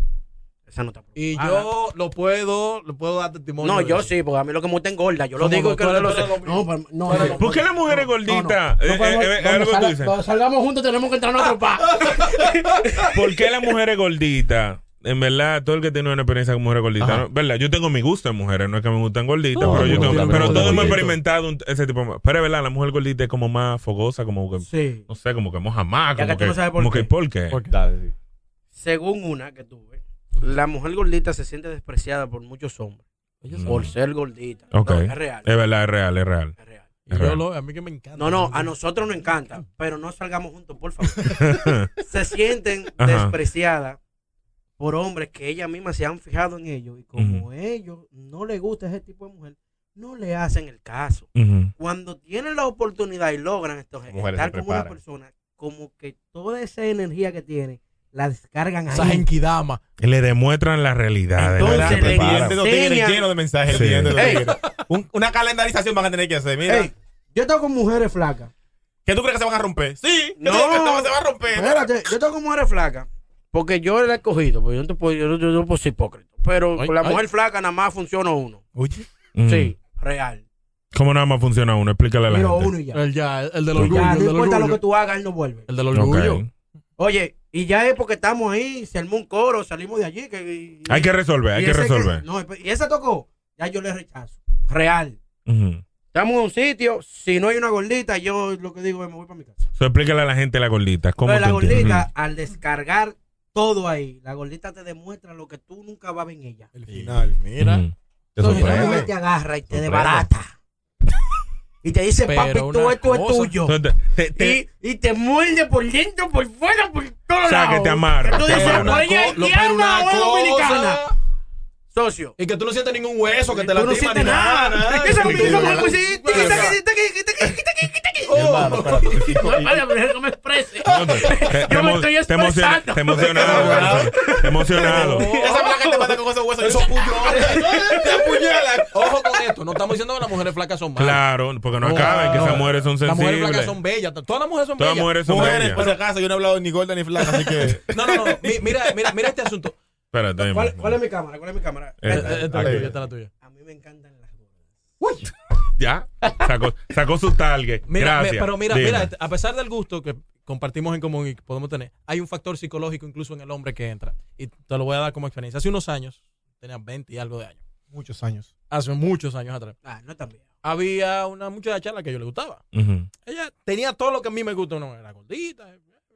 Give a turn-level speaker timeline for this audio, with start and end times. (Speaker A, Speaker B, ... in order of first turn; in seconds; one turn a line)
Speaker A: 0.7-1.7
Speaker B: 1.1-4.1
Speaker A: 3.6-13.1
Speaker B: 5.4-7.7
Speaker C: 7.4-10.1
Speaker C: 13.1-27.6
Speaker D: 17.0-17.2
Speaker B: 19.6-21.2
Speaker D: 19.6-21.1
Speaker A: 24.6-25.1
Speaker A: 26.1-27.1
Speaker B: 27.5-27.8
Speaker D: 27.6-28.1
Speaker A: 28.8-33.0
Speaker B: 33.4-33.9
Speaker C: 33.5-33.9
Speaker A: 33.7-35.5
Speaker C: 34.7-36.6
Speaker A: 36.6-36.9
Speaker B: 37.1-39.6
Speaker C: 37.1-37.4
Speaker A: 38.1-41.5
Speaker C: 41.4-41.9
Speaker A: 42.0-44.0
Speaker C: 43.0-43.3
Speaker A: 44.8-59.3
Speaker C: 47.2-47.4
Speaker C: 51.4-51.7
Speaker D: 54.1-55.0
Speaker B: 58.9-59.8
Speaker C: 60.0-62.4
Speaker A: 61.4-63.3
Speaker E: 61.4-66.9
Speaker D: 61.7-62.6
Speaker C: 63.7-64.3
Speaker A: 64.1-64.5
Speaker B: 64.2-64.8
Speaker A: 66.7-68.5
Speaker E: 69.1-71.9
Speaker A: 70.4-78.6
Speaker B: 76.8-77.2
Speaker E: 78.8-79.1
Speaker C: 79.3-79.7
Speaker A: 79.4-80.4
Speaker C: 80.9-82.7
Speaker A: 82.3-83.0
Speaker B: 82.9-84.8
Speaker C: 83.7-84.1
Speaker A: 83.8-85.7
Speaker B: 85.7-86.4
Speaker C: 85.9-86.5
Speaker A: 87.0-95.2
Speaker C: 90.9-92.2
Speaker C: 95.5-95.8
Speaker A: 96.1-99.7
Speaker C: 99.8-102.1
Speaker A: 101.2-106.7
Speaker B: 106.7-107.8
Speaker E: 106.9-107.3
Speaker C: 107.6-107.9
Speaker D: 108.4-109.1
Speaker A: 108.4-110.5
Speaker B: 108.4-109.0
Speaker D: 109.7-110.3
Speaker A: 111.8-113.7
Speaker B: 112.2-113.6
Speaker C: 113.7-114.6
Speaker A: 114.3-121.0
Speaker C: 117.4-119.0
Speaker B: 118.3-121.1
Speaker A: 121.9-122.3
Speaker B: 122.4-126.8
Speaker A: 123.5-136.2
Speaker D: 124.3-125.8
Speaker B: 128.3-129.4
Speaker D: 128.3-129.8
Speaker C: 130.8-135.3
Speaker E: 133.2-134.1
Speaker B: 133.2-134.1
Speaker B: 134.7-135.6
Speaker E: 134.7-139.3
Speaker B: 136.6-137.7
Speaker A: 137.0-138.2
Speaker B: 138.9-141.2
Speaker C: 141.0-143.8
Speaker B: 141.8-146.0
Speaker E: 142.0-142.6
Speaker C: 144.8-145.9
Speaker E: 145.2-149.0
Speaker B: 147.9-149.8
Speaker C: 150.1-151.0
Speaker A: 150.4-152.8
Speaker C: 152.0-152.5
Speaker B: 152.1-153.3
Speaker D: 152.4-152.9
Speaker A: 153.4-154.5
Speaker B: 155.0-155.3
Speaker C: 155.8-159.1
Speaker B: 157.9-167.6
Speaker E: 167.9-168.5
Speaker B: 168.7-169.8
Speaker A: 169.8-170.4
Speaker B: 170.6-172.6
Speaker C: 172.7-173.1
Speaker B: 173.2-175.8